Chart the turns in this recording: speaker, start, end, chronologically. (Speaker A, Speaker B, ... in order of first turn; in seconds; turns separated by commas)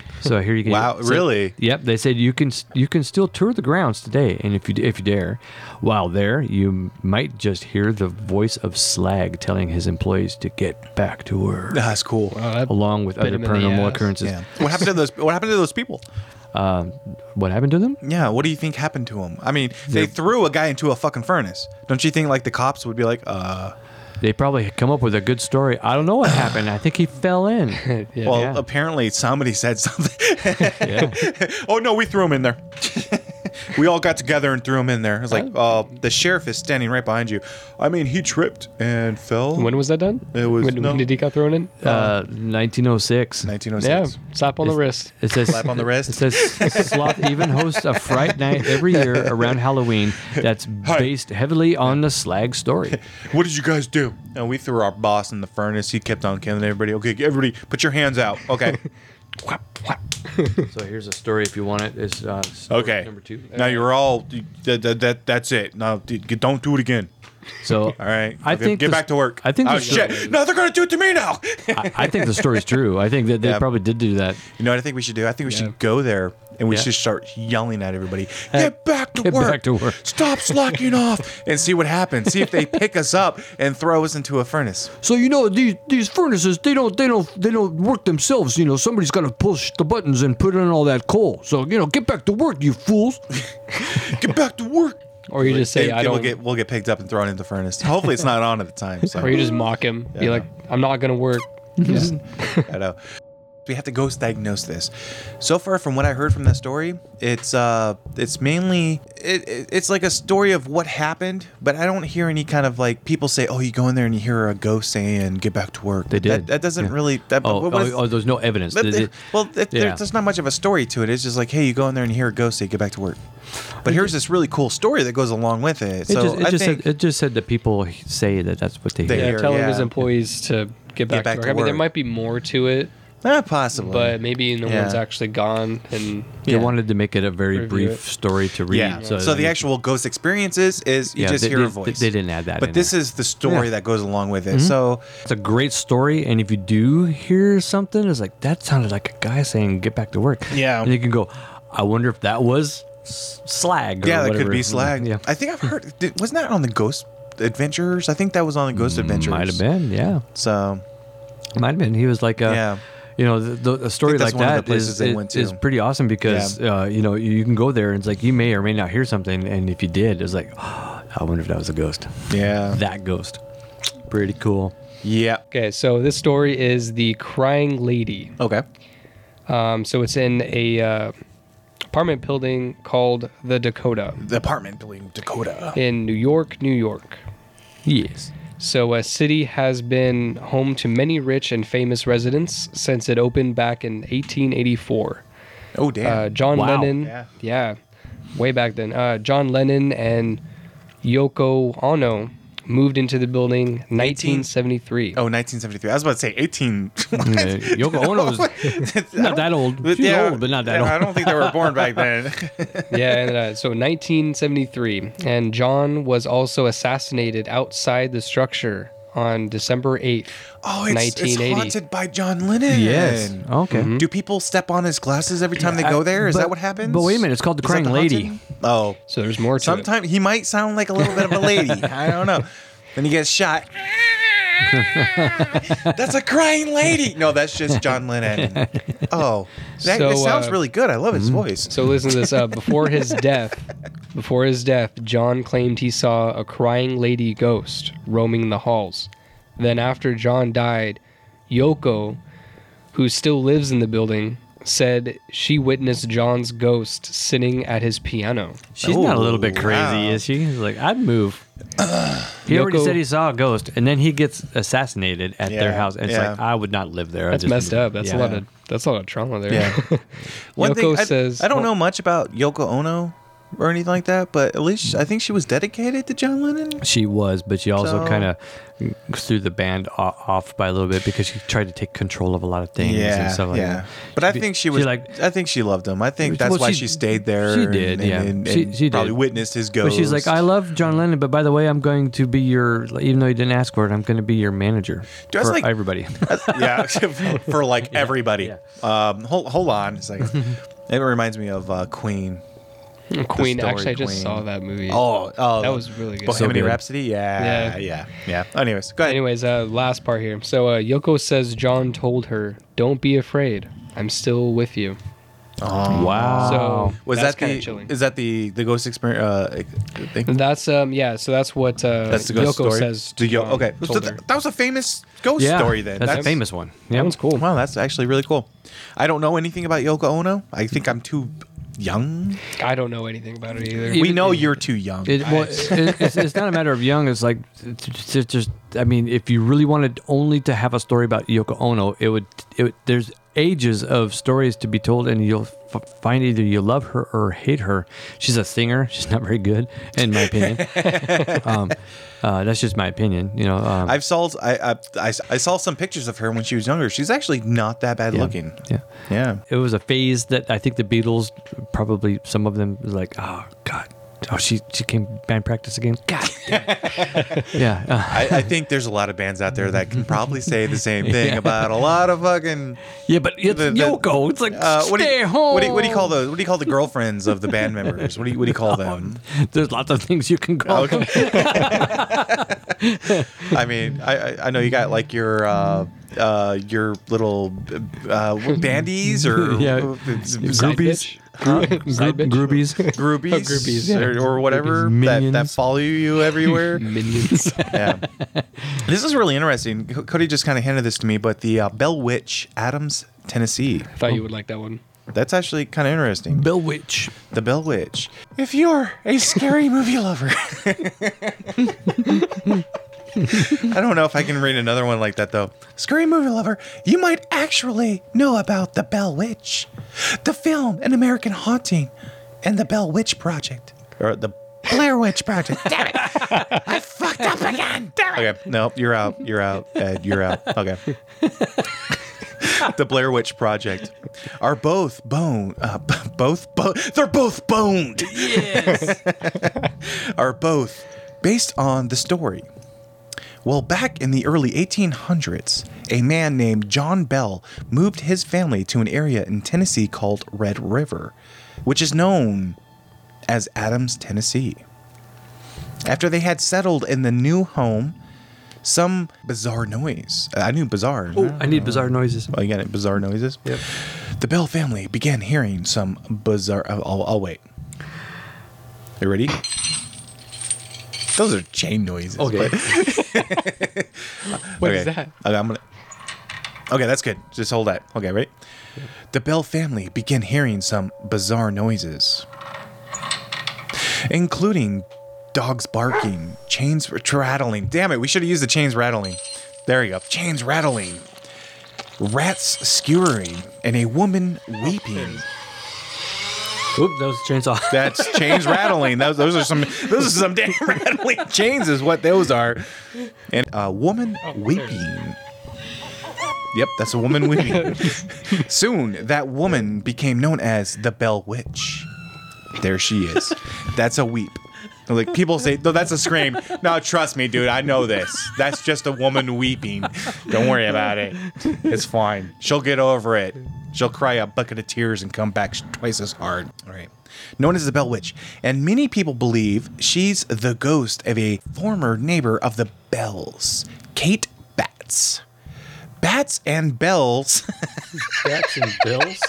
Speaker A: 0.2-11.8, Speaker B: 0.6-1.5, Speaker B: 11.7-12.3, Speaker C: 12.3-14.1, Speaker A: 12.7-14.8, Speaker B: 14.2-16.0, Speaker A: 16.5-18.0, Speaker B: 18.0-23.7, Speaker A: 24.2-28.6, Speaker C: 27.8-28.4, Speaker B: 28.2-39.8, Speaker A: 30.8-31.2, Speaker C: 39.5-41.8, Speaker B: 40.3-41.1, Speaker A: 41.8-43.5, Speaker B: 41.8-42.1, Speaker B: 43.4-44.1, Speaker C: 43.8-45.1, Speaker A: 44.6-53.0, Speaker B: 45.4-49.4, Speaker B: 50.3-51.1, Speaker B: 52.9-58.8, Speaker C: 59.5-60.7, Speaker A: 60.6-63.5, Speaker B: 62.7-67.1, Speaker C: 63.5-63.9, Speaker A: 67.6-70.3, Speaker B: 68.0-72.7, Speaker C: 69.7-70.3, Speaker A: 71.7-74.4, Speaker B: 73.4-73.7, Speaker B: 74.5-84.9, Speaker C: 75.5-75.7, Speaker A: 78.5-80.6, Speaker A: 85.0-93.2, Speaker B: 93.8-99.4, Speaker C: 95.3-96.4, Speaker C: 99.1-102.7, Speaker B: 100.1-100.5, Speaker A: 101.8-102.1, Speaker B: 101.9-103.0, Speaker B: 103.6-118.0, Speaker A: 116.1-119.2, Speaker B: 118.7-123.2, Speaker A: 119.7-120.0, Speaker B: 123.8-126.8, Speaker A: 123.8-124.1, Speaker A: 126.1-129.4, Speaker B: 129.0-129.9, Speaker C: 129.1-132.9, Speaker B: 131.1-131.8, Speaker B: 133.2-135.0, Speaker C: 133.7-136.5, Speaker B: 136.4-136.7, Speaker A: 136.5-139.6, Speaker C: 137.5-138.0, Speaker B: 138.7-145.1, Speaker C: 138.9-139.2, Speaker A: 141.1-143.7, Speaker A: 144.5-155.2, Speaker B: 150.5-150.9, Speaker B: 154.0-159.6, Speaker A: 158.7-160.2, Speaker B: 160.3-160.8, Speaker A: 161.6-173.4, Speaker B: 162.4-162.8, Speaker B: 164.0-165.6, Speaker B: 166.2-166.6, Speaker B: 172.3-172.8, Speaker A: 174.1-174.7, Speaker B: 175.0-175.4, Speaker C: 175.5-178.3, Speaker B: 178.4-178.6, Speaker C: 179.5-181.1, Speaker C: 181.9-184.2, Speaker B: 184.2-185.8, Speaker C: 185.7-187.2, Speaker A: 187.8-188.3, Speaker C: 188.6-195.2, Speaker B: 195.7-196.3, Speaker C: 196.0-197.8, Speaker A: 196.5-197.0, Speaker B: 197.0-197.3, Speaker C: 198.3-200.4, Speaker C: 201.0-205.2, Speaker B: 204.0-204.5, Speaker B: 205.1-213.1, Speaker A: 207.2-212.0, Speaker C: 212.9-221.8, Speaker B: 220.6-229.0, Speaker A: 222.7-223.9, Speaker C: 223.7-224.1, Speaker A: 225.6-228.4, Speaker C: 229.1-229.9, Speaker B: 229.6-241.7, Speaker A: 231.1-231.9, Speaker A: 234.6-235.9, Speaker A: 237.7-239.0, Speaker C: 239.8-240.6, Speaker A: 241.1-241.5, Speaker C: 241.7-252.2, Speaker C: 252.9-258.6, Speaker A: 258.8-261.4, Speaker B: 258.8-260.2, Speaker B: 261.8-262.4, Speaker A: 262.4-268.4, Speaker C: 262.5-263.0, Speaker B: 265.4-266.4, Speaker C: 267.3-270.1, Speaker B: 269.5-269.8, Speaker B: 270.6-276.8, Speaker C: 270.6-271.7, Speaker A: 276.8-285.1, Speaker B: 277.8-278.3, Speaker B: 282.8-290.4, Speaker A: 286.2-289.2, Speaker A: 289.8-298.6, Speaker B: 295.3-302.4, Speaker C: 303.1-305.1, Speaker B: 303.4-309.2, Speaker C: 305.6-306.5, Speaker A: 306.3-306.8, Speaker C: 307.4-307.8, Speaker C: 309.0-315.0, Speaker B: 315.6-320.3, Speaker A: 315.9-317.0, Speaker C: 316.4-317.9, Speaker C: 320.2-324.2, Speaker B: 322.1-326.4, Speaker A: 325.4-327.1, Speaker C: 326.0-326.3, Speaker C: 326.9-327.4, Speaker B: 327.3-332.4, Speaker C: 332.5-334.4, Speaker A: 333.8-334.5, Speaker B: 333.9-336.2, Speaker A: 335.0-354.0, Speaker C: 335.2-335.9, Speaker B: 350.1-351.5, Speaker B: 353.8-359.4, Speaker A: 358.1-358.9, Speaker A: 359.5-368.5, Speaker B: 366.5-372.8, Speaker A: 371.0-371.8, Speaker A: 373.0-376.2, Speaker B: 373.4-379.2, Speaker A: 377.6-383.6, Speaker B: 380.6-382.6, Speaker C: 380.8-381.9, Speaker B: 383.4-396.9, Speaker A: 389.1-392.9, Speaker C: 390.4-394.1, Speaker A: 394.0-395.6, Speaker C: 396.7-397.8, Speaker A: 397.2-398.8, Speaker B: 397.7-398.0, Speaker B: 398.8-403.9, Speaker C: 403.9-404.8, Speaker B: 405.1-406.5, Speaker A: 406.3-407.1, Speaker B: 407.3-412.3, Speaker B: 413.2-430.8, Speaker B: 432.4-442.5, Speaker A: 438.0-439.0, Speaker B: 443.4-452.6, Speaker B: 453.3-454.6, Speaker B: 455.8-457.9, Speaker B: 458.6-467.4, Speaker A: 461.1-462.3, Speaker B: 469.0-469.4, Speaker B: 471.1-475.6, Speaker A: 472.2-473.2, Speaker C: 474.5-475.1, Speaker B: 476.7-478.3, Speaker B: 479.1-482.2, Speaker B: 483.7-491.1, Speaker B: 492.0-495.3, Speaker A: 496.7-498.9, Speaker B: 497.7-502.6, Speaker B: 503.3-505.2, Speaker B: 506.5-511.9, Speaker B: 512.5-535.2, Speaker B: 536.0-538.5, Speaker C: 538.2-538.8, Speaker A: 538.4-539.1